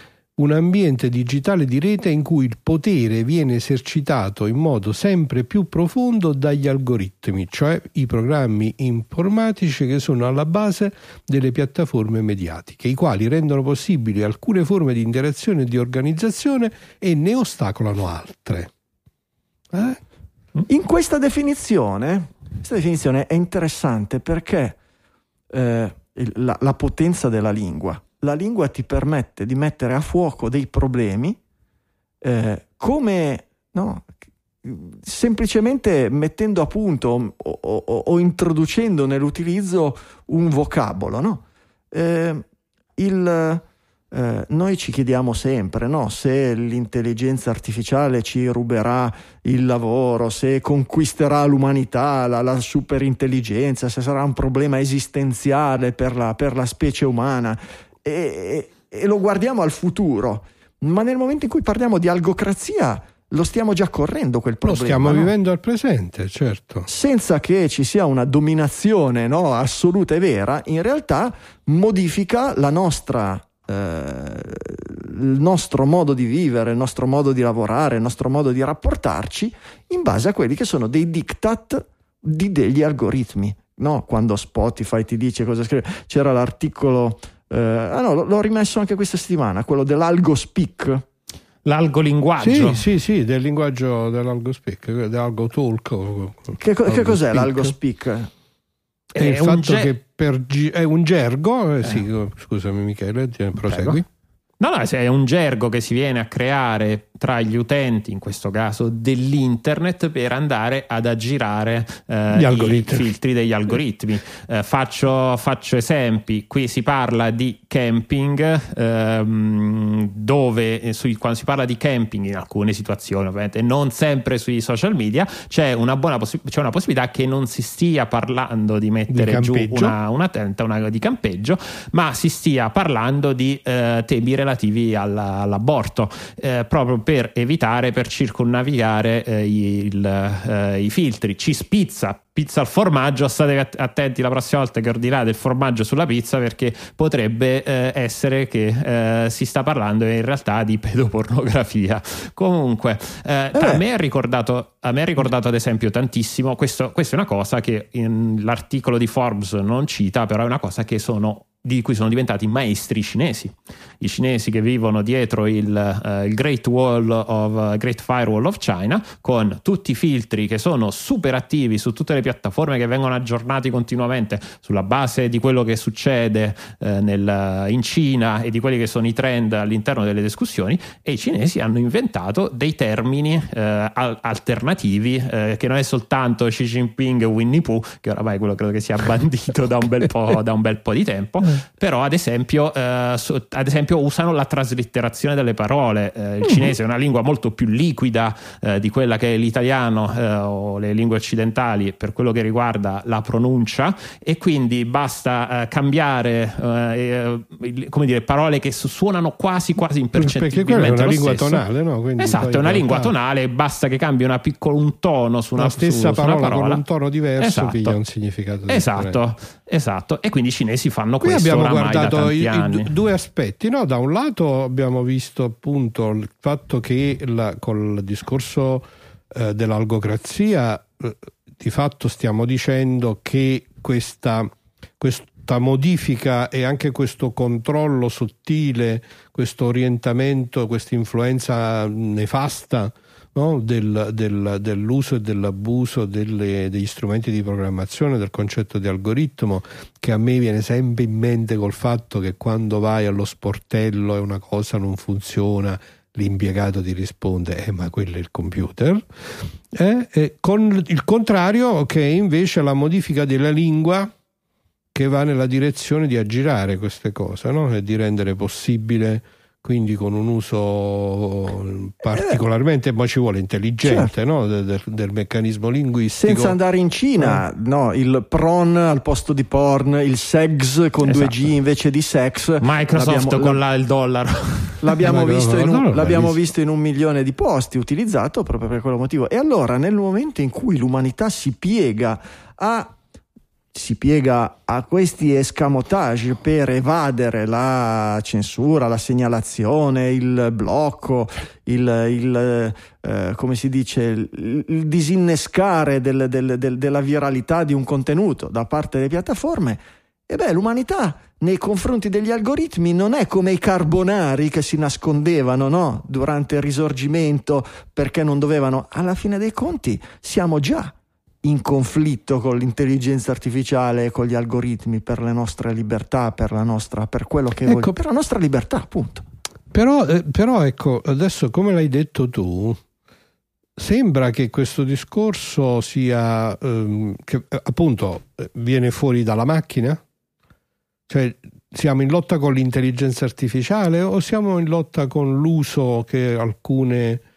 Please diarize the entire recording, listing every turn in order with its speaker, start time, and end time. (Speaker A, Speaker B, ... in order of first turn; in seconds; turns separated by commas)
Speaker A: 0.4-18.7, Speaker A: 19.7-20.0, Speaker B: 20.7-24.8, Speaker B: 25.5-31.4, Speaker B: 32.2-34.1, Speaker B: 34.6-42.4, Speaker B: 43.0-65.3, Speaker A: 64.6-66.9, Speaker B: 66.9-91.0, Speaker C: 91.7-92.8, Speaker A: 92.4-97.7, Speaker B: 96.6-98.3, Speaker C: 99.1-99.9, Speaker A: 99.2-104.1, Speaker C: 103.6-104.0, Speaker C: 104.6-211.6, Speaker A: 112.3-113.1, Speaker A: 129.1-129.9, Speaker B: 153.6-153.8, Speaker A: 210.2-213.1, Speaker C: 212.2-216.8, Speaker A: 215.6-219.2, Speaker C: 217.4-218.0, Speaker C: 218.7-222.9, Speaker A: 221.2-264.1, Speaker A: 264.9-276.6, Speaker B: 272.1-272.4, Speaker B: 273.8-274.1, Speaker B: 276.2-283.6, Speaker C: 281.1-281.4, Speaker C: 282.6-285.0, Speaker B: 284.8-292.9, Speaker A: 285.0-286.4, Speaker B: 293.7-329.2, Speaker A: 327.7-327.9, Speaker A: 329.7-332.8, Speaker A: 333.8-340.0, Speaker A: 341.1-347.2